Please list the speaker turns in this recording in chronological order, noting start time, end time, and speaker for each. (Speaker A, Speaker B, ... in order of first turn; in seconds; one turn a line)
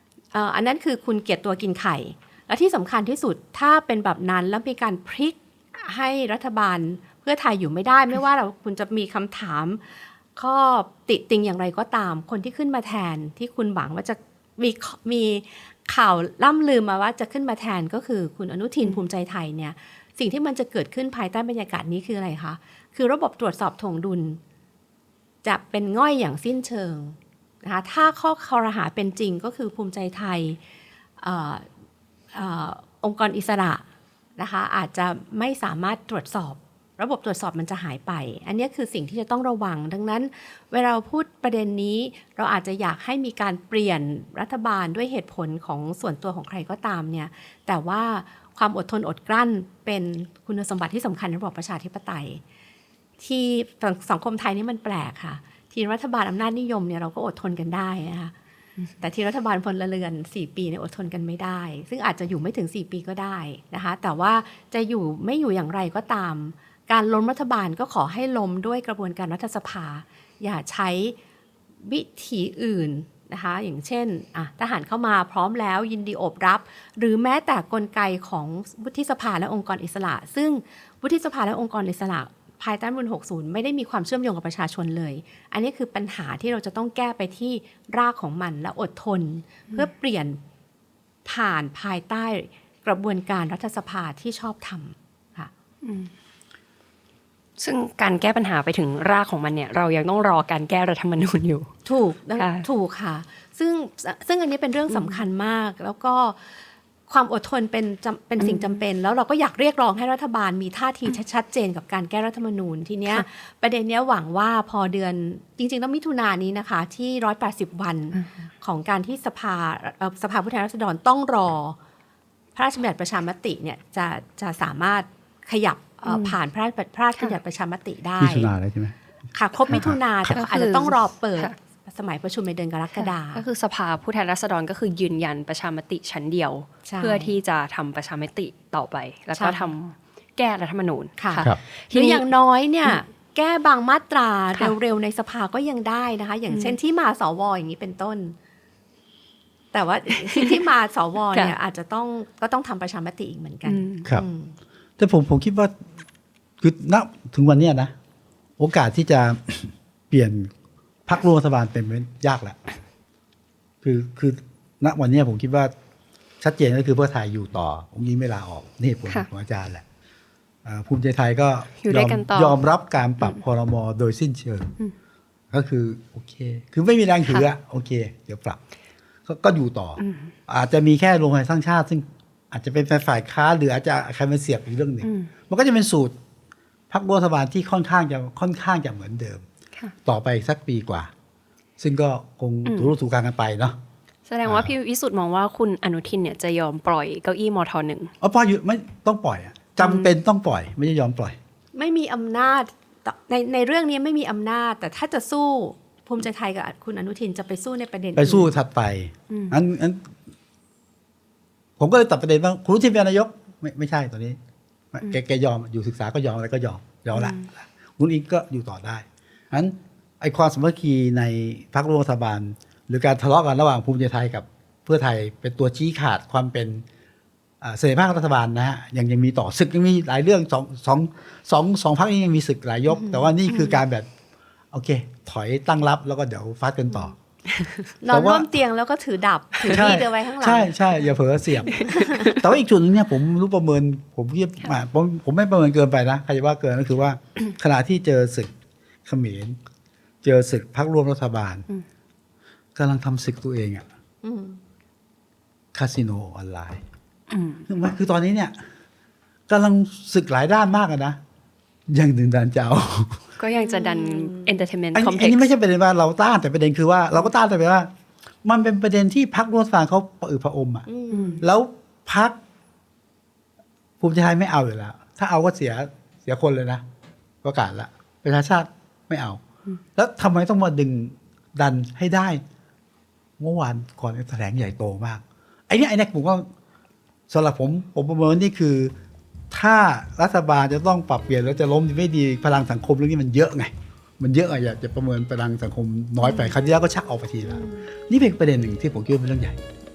Speaker A: 0.3-24.4
Speaker A: 25.4-30.6
Speaker A: 31.2-31.7
Speaker A: 32.3-33.8
Speaker A: 34.4-52.4
Speaker A: 53.2-58.3
Speaker A: 59.0-71.2
Speaker A: 71.8-90.4
Speaker A: 91.2-95.5
Speaker B: 95.8-96.1
Speaker B: 97.6-101.7
Speaker A: 101.8-121.8
Speaker B: 102.4-102.7
Speaker B: 104.9-105.2
Speaker B: 108.4-108.8
Speaker B: 118.2-118.5
Speaker A: 122.5-128.5
Speaker B: 126.1-126.3
Speaker C: 128.2-128.9
Speaker A: 129.3-133.4
Speaker C: 129.7-130.4
Speaker B: 130.3-131.6
Speaker B: 132.9-142.3
Speaker A: 136.8-137.3
Speaker A: 139.3-139.7
Speaker A: 141.2-148.4
Speaker B: 146.5-146.8
Speaker A: 149.7-154.6
Speaker B: 150.2-150.6
Speaker B: 153.7-154.1
Speaker C: 155.0-155.7
Speaker C: 156.6-157.9
Speaker C: 158.6-160.5
Speaker C: 161.1-162.6
Speaker C: 163.8-165.7
Speaker C: 166.4-169.8
Speaker C: 170.7-174.7
Speaker B: 171.8-172.6
Speaker C: 175.5-178.6
Speaker C: 179.3-186.1
Speaker B: 180.0-180.3
Speaker B: 185.0-185.3
Speaker C: 186.9-189.4
Speaker C: 190.1-191.1
Speaker C: 191.8-193.8
Speaker B: 192.7-192.9
Speaker B: 194.3-198.1
Speaker C: 194.4-194.7
Speaker C: 198.2-201.4
Speaker B: 199.8-200.1
Speaker A: 201.7-208.5
Speaker C: 208.2-210.1
Speaker B: 209.3-209.6
Speaker C: 211.8-214.4
Speaker C: 214.9-226.8
Speaker B: 217.1-217.4
Speaker C: 227.6-234.1
Speaker A: 232.9-233.8
Speaker C: 234.7-237.2
Speaker B: 237.6-237.8
Speaker A: 238.0-240.8
Speaker C: 238.1-238.5
Speaker C: 239.7-248.5
Speaker B: 241.7-242.4
Speaker A: 241.7-242.4
Speaker C: 249.1-249.6
Speaker C: 250.2-251.7
Speaker C: 252.8-253.8
Speaker A: 254.2-254.6
Speaker C: 255.7-256.8
Speaker B: 257.3-257.6
Speaker C: 257.7-258.6
Speaker C: 259.5-261.2
Speaker C: 261.9-263.3
Speaker B: 263.4-265.5
Speaker A: 263.5-264.5
Speaker C: 264.9-267.9
Speaker C: 268.4-270.9
Speaker A: 270.9-271.4
Speaker B: 271.1-271.4
Speaker C: 271.4-272.4
Speaker C: 274.0-276.8
Speaker C: 277.4-279.4
Speaker C: 280.0-282.4
Speaker C: 283.4-286.5
Speaker C: 287.3-288.9
Speaker C: 289.5-299.6